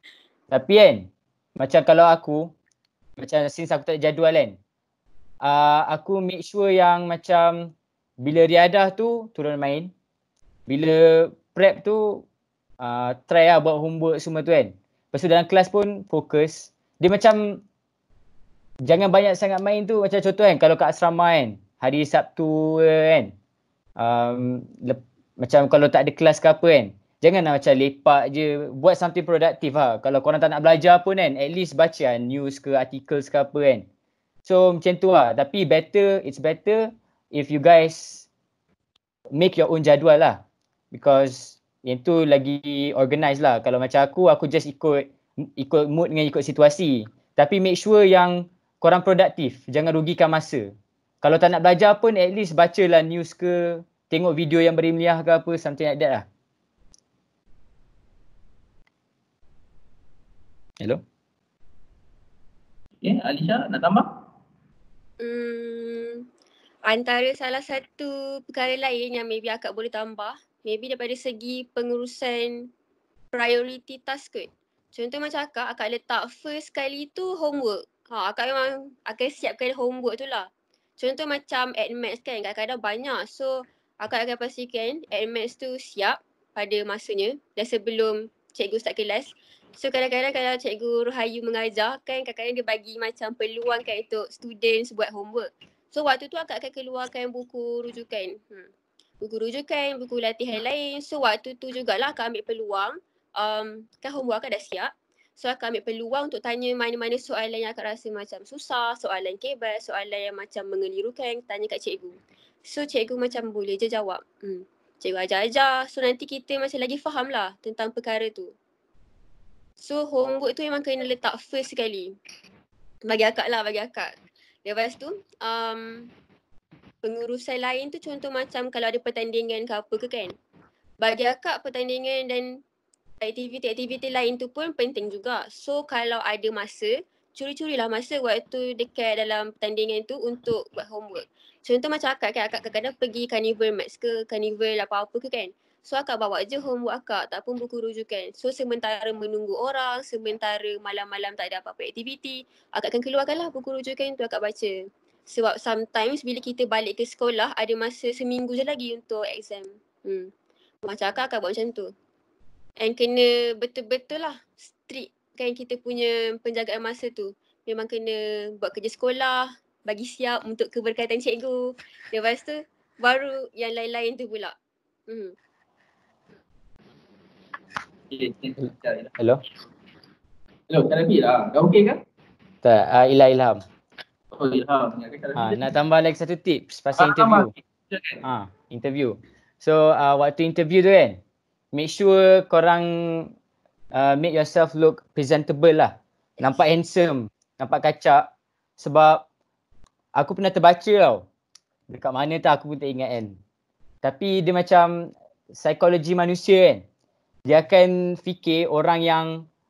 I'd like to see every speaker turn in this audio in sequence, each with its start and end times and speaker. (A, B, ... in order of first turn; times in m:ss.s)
0:00.5-0:02.5 A
0:03.2-0:04.6 A
0:05.4-0:09.9 A
0:10.7-0:12.2 A
0:12.8-0:17.6 A
0:18.8-0:23.3 A
0:24.0-0:33.9 A
0:34.4-0:38.3 A
0:39.3-0:40.4 A
0:40.9-0:56.2 A
1:03.0-1:04.2 B
1:05.2-1:06.3 C
1:06.9-1:12.7 C
1:13.3-1:38.7 C
1:39.2-1:58.5 C
1:59.8-2:02.2 C
2:03.1-2:04.1 C
2:04.6-2:06.1 C
2:07.0-2:10.4 C
2:11.0-2:12.6 C
2:13.2-2:40.3 C
2:40.8-2:41.9 C
2:42.8-2:54.6 C
2:55.1-2:55.4 C
2:58.1-2:59.1 B
2:59.2-2:59.4 A
3:00.7-3:02.0 B
3:02.6-3:03.6 A
3:04.3-3:05.7 B
3:05.4-3:07.5 A
3:07.0-3:08.2 B
3:08.2-3:11.2 A
3:11.7-3:13.3 A
3:13.9-3:19.2 A
3:20.2-3:21.3 A
3:21.9-3:23.4 A
3:24.0-3:26.8 A
3:27.5-3:29.5 A